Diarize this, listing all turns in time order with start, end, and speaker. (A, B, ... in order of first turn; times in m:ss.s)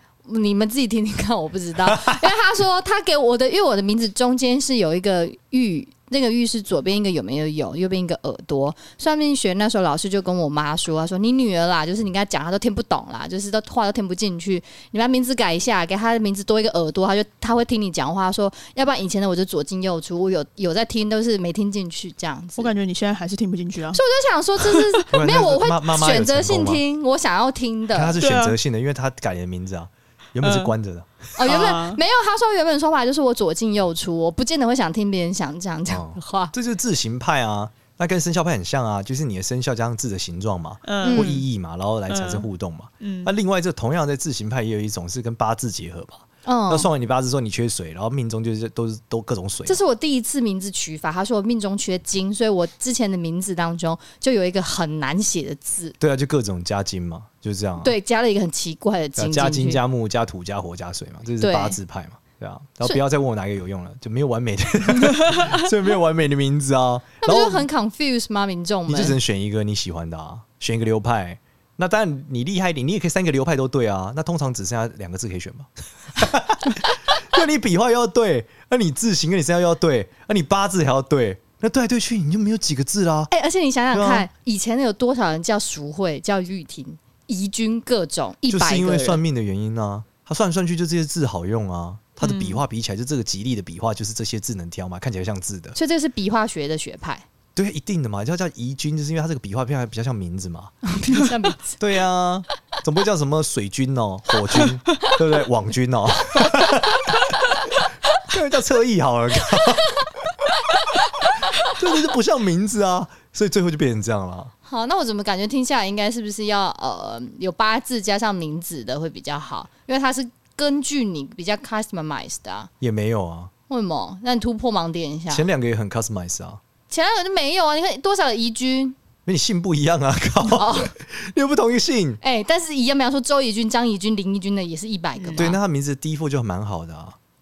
0:00.3-0:22.7 A
0:01.8-0:02.3 B
0:22.6-0:24.0 C
0:23.9-0:28.2 A
0:24.6-0:25.0 C
0:25.1-0:26.8 B
0:27.9-0:31.4 B
0:28.2-0:28.6 C
0:30.4-0:30.7 C
0:31.4-0:36.5 A
0:31.4-0:32.0 C
0:35.9-0:49.8 B
0:40.8-0:41.4 C
0:41.0-0:41.4 A
0:42.1-0:42.5 C
0:43.0-0:43.3 C
0:46.4-0:46.9 A
0:49.7-0:56.0 A
0:56.0-0:58.0 B
0:57.8-0:59.8 A
0:59.2-1:07.7 B
1:01.4-1:01.8 A
1:07.2-1:09.2 A
1:08.9-1:23.3 B
1:23.3-1:29.2 A
1:23.9-1:24.3 B
1:28.5-1:35.8 B
1:32.2-1:32.6 C
1:35.8-1:37.3 A
1:37.6-1:40.8 B
1:40.9-1:41.8 A
1:41.8-1:47.2 B
1:48.2-1:50.4 B
1:51.6-1:54.5 B
1:54.7-2:02.7 A
2:02.8-2:03.5 B
2:03.7-2:05.5 A
2:05.3-2:06.6 B
2:06.9-2:09.0 A
2:09.3-2:12.2 B
2:10.4-2:10.9 A
2:12.2-2:15.6 A
2:15.2-2:15.5 C
2:15.4-2:17.2 B